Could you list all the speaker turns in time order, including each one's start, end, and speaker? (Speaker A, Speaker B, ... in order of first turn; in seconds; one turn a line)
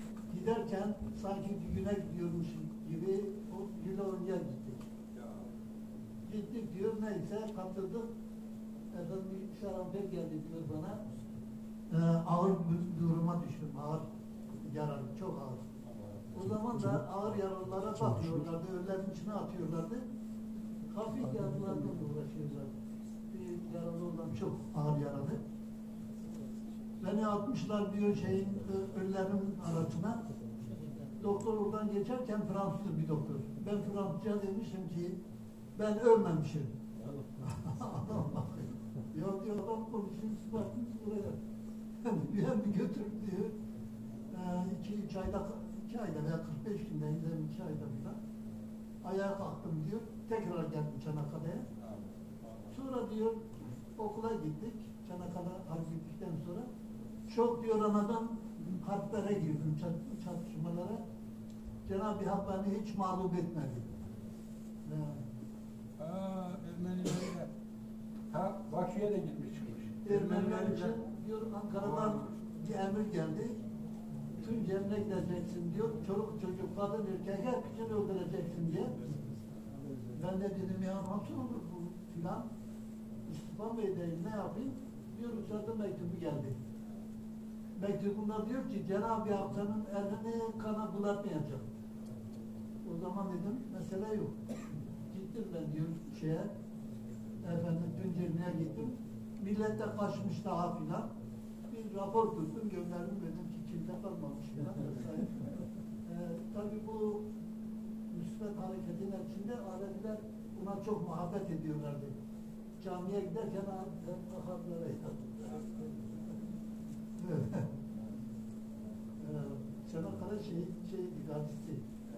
Speaker A: 0.3-4.9
Speaker B: 5.2-5.5
Speaker A: 6.2-8.1
Speaker A: 8.9-11.0
Speaker A: 11.9-14.1
Speaker A: 14.6-15.7
Speaker B: 15.9-16.2
Speaker A: 16.3-20.1
Speaker A: 20.9-22.7
Speaker A: 23.3-25.4
Speaker A: 27.0-30.2
Speaker A: 31.2-35.2
Speaker A: 35.8-36.7
Speaker A: 37.4-41.4
Speaker A: 42.0-43.5
Speaker A: 44.3-48.2
Speaker A: 49.0-51.7
Speaker B: 51.8-52.6
Speaker A: 52.7-56.7
Speaker A: 57.2-61.0
Speaker A: 61.8-63.9
Speaker A: 64.8-65.2
Speaker B: 66.0-67.5
Speaker B: 68.3-71.0
Speaker A: 70.0-73.6
Speaker B: 71.8-72.3
Speaker A: 74.3-79.1
Speaker A: 80.0-82.5
Speaker A: 83.2-86.6
Speaker A: 87.8-91.7
Speaker A: 92.8-94.4
Speaker A: 95.0-96.5
Speaker A: 97.4-101.1
Speaker A: 101.7-107.2
Speaker A: 108.1-112.1
Speaker A: 112.8-115.7
Speaker A: 117.2-117.7
Speaker A: 119.2-121.8